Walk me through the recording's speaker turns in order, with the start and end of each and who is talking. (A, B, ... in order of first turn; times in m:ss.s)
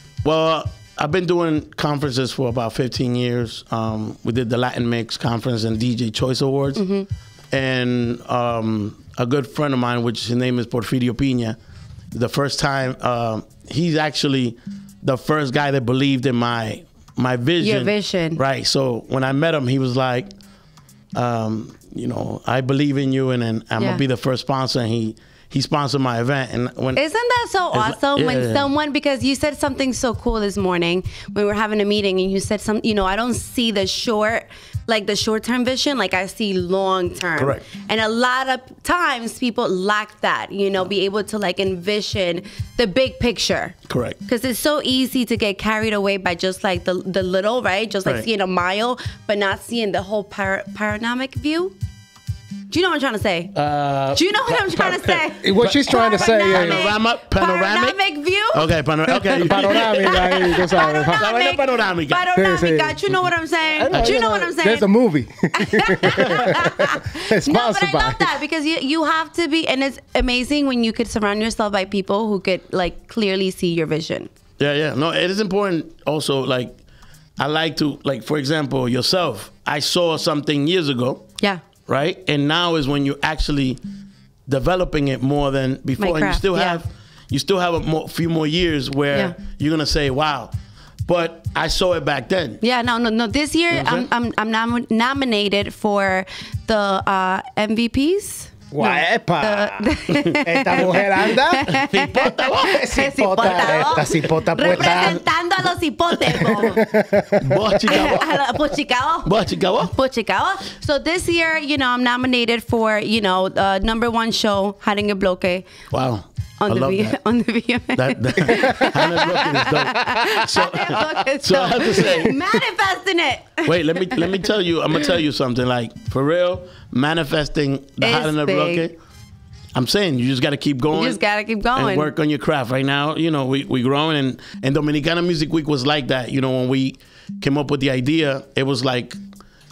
0:00.2-0:06.8 A
0:06.8-0:07.1 B
0:07.5-0:11.6 A
0:12.1-0:20.3 A
0:17.6-0:18.4 B
0:21.1-0:27.0 A
0:23.8-0:24.0 B
0:26.9-0:51.8 B
0:27.7-0:28.7 A
0:37.4-0:37.6 A
0:43.9-0:44.2 A
0:52.7-0:53.6 B
0:53.5-0:58.0 A
0:54.1-1:04.8 B
0:55.4-0:56.9 C
0:58.5-1:02.3 A
0:59.3-1:01.3 C
1:02.3-1:03.0 C
1:03.7-1:08.2 C
1:03.9-1:04.2 A
1:05.5-1:14.3 B
1:06.2-1:06.5 A
1:14.6-1:16.8 A
1:17.4-1:21.2 A
1:21.9-1:23.8 A
1:24.5-1:30.5 A
1:26.0-1:26.8 B
1:31.1-1:32.6 A
1:32.6-1:46.8 B
1:33.7-1:34.1 A
1:38.7-1:41.8 C
1:40.1-1:41.0 A
1:41.6-1:45.2 A
1:42.6-1:45.2 C
1:46.4-1:48.0 C
1:47.4-1:48.4 A
1:47.9-1:55.7 B
1:49.2-1:49.9 A
1:55.9-1:57.2 A
1:56.6-2:04.5 B
1:57.9-2:02.3 A
1:58.5-1:58.9 C
2:03.6-2:09.0 A
2:08.0-2:08.9 B
2:09.7-2:11.2 A
2:10.9-2:12.1 B
2:11.7-2:19.2 A